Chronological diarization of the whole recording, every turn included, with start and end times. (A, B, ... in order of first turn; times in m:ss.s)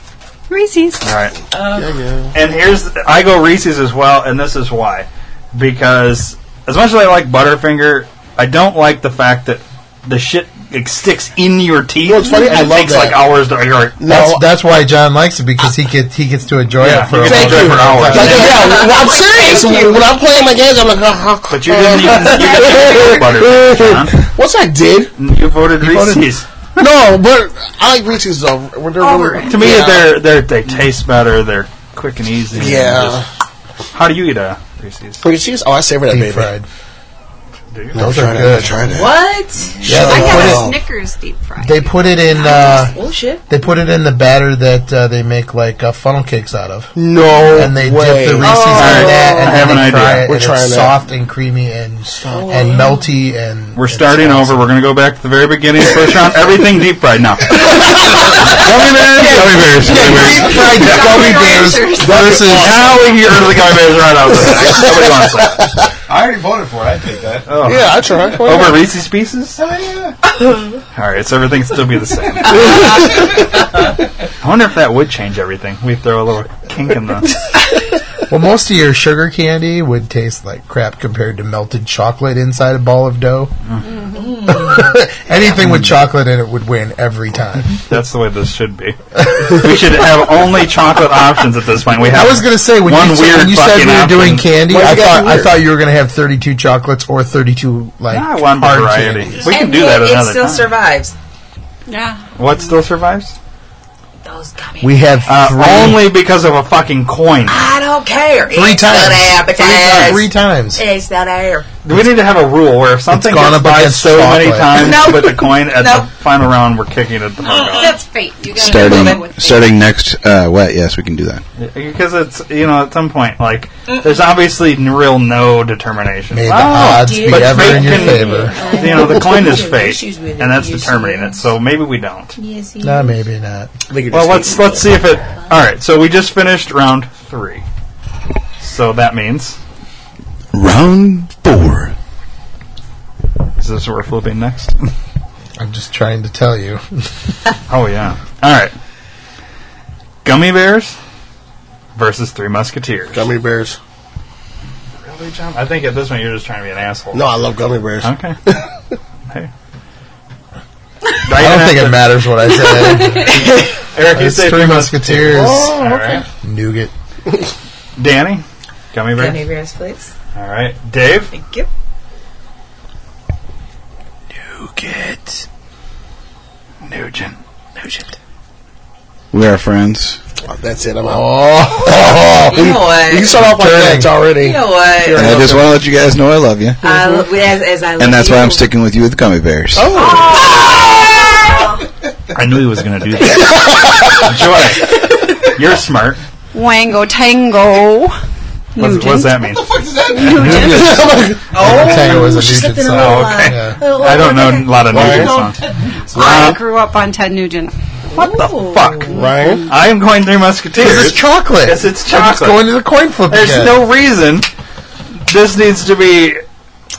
0:00.5-0:01.0 A
0:01.0-0:01.4 B
0:01.5-0:02.0 C
0:01.7-0:02.3 D
0:02.3-0:14.0 B
0:12.0-0:13.3 D
0:14.0-0:14.4 D
0:14.1-0:18.5 E
0:16.8-0:18.7 B
0:17.0-0:25.1 D
0:18.2-0:20.1 C
0:21.5-0:24.2 B
0:22.2-0:23.2 C
0:25.2-0:26.5 B
0:25.8-0:26.3 E
0:26.8-0:30.2 D
0:29.0-0:29.6 A
0:29.4-0:33.2 B
0:32.5-0:33.3 D
0:33.9-0:35.2 B
0:35.2-0:36.5 D
0:36.1-0:36.7 E
0:37.7-0:38.0 B
0:37.9-0:39.2 D
0:38.0-0:39.0 E
0:38.9-0:40.5 C
0:39.8-0:40.8 D
0:39.8-0:40.7 E
0:39.9-0:43.0 A
0:41.6-0:42.9 E
0:42.4-0:43.4 C
0:43.5-0:47.0 E
0:47.0-0:48.6 D
0:47.5-0:54.8 E
0:48.4-0:49.8 C
0:48.7-0:50.3 B
0:50.2-0:51.0 D
0:52.2-0:52.6 D
0:52.3-0:53.1 C
0:53.8-0:57.8 B
0:57.7-0:59.5 D
0:58.4-1:01.2 B
0:59.2-1:00.5 F
0:59.8-1:02.9 E
1:00.2-1:01.3 D
1:00.2-1:02.4 A
1:02.0-1:03.1 D
1:02.1-1:05.7 B
1:04.3-1:05.7 D
1:06.1-1:07.7 G
1:07.5-1:09.6 B
1:07.6-1:08.9 D
1:09.6-1:10.2 G
1:10.9-1:12.9 B
1:12.6-1:13.2 D
1:12.6-1:12.9 C
1:14.4-1:17.3 B
1:18.3-1:23.6 E
1:23.9-1:24.4 A
1:24.1-1:25.0 C
1:24.5-1:27.8 E
1:27.9-1:34.5 B
1:32.0-1:39.5 E
1:34.7-1:35.6 D
1:38.1-1:40.7 B
1:39.4-1:41.1 C
1:41.9-1:42.3 A
1:42.4-1:43.4 B
1:44.2-1:45.3 C
1:44.8-1:46.1 E
1:45.3-1:47.6 B
1:47.5-1:51.7 C
1:48.5-1:50.8 E
1:49.6-1:50.2 B
1:51.8-1:57.9 B
1:53.1-1:55.0 E
1:54.7-1:56.1 C
1:57.4-1:58.0 C
1:57.5-1:59.6 A
1:58.6-2:01.4 F
1:58.6-1:59.6 C
2:01.6-2:12.4 B
2:06.3-2:08.6 E
2:06.7-2:11.5 C
2:12.8-2:13.7 E
2:13.9-2:15.0 D
2:14.1-2:17.6 B
2:18.6-2:19.6 B
2:20.5-2:21.9 F
2:23.6-2:24.7 B
2:25.6-2:27.3 E
2:27.7-2:28.7 B
2:30.2-2:31.0 B
2:32.0-2:33.3 B
2:33.1-2:33.8 D
2:35.0-2:37.4 B
2:37.1-2:38.7 D
2:38.0-2:38.4 B
2:41.2-2:42.2 B
2:41.3-2:45.8 E
2:43.0-2:46.2 B
2:45.2-2:46.2 D
2:46.4-2:46.9 E
2:48.0-2:49.4 B
2:49.1-2:50.1 C
2:50.4-2:51.3 B
2:51.3-2:51.7 C
2:54.6-2:55.3 E
2:56.9-2:58.1 B
2:59.3-3:00.2 F
3:00.5-3:05.8 D
3:01.8-3:03.4 C
3:03.4-3:04.2 E
3:04.3-3:05.4 C
3:05.2-3:06.8 F
3:06.8-3:08.7 C
3:08.0-3:10.0 F
3:09.7-3:11.3 D
3:10.0-3:10.9 C
3:12.3-3:16.2 B
3:13.4-3:14.3 D
3:16.5-3:18.2 A
3:18.8-3:19.6 A
3:18.8-3:19.7 B
3:20.1-3:21.0 A
3:20.2-3:21.6 D
3:20.3-3:20.9 E
3:21.5-3:25.4 C
3:21.5-3:23.8 E
3:22.9-3:25.6 B
3:24.9-3:25.5 D
3:26.1-3:27.8 A
3:26.1-3:26.6 B
3:28.1-3:29.3 C
3:28.1-3:32.7 B
3:29.1-3:29.7 D
3:29.2-3:29.8 A
3:30.8-3:33.8 E
3:33.3-3:34.5 B
3:35.3-3:36.4 B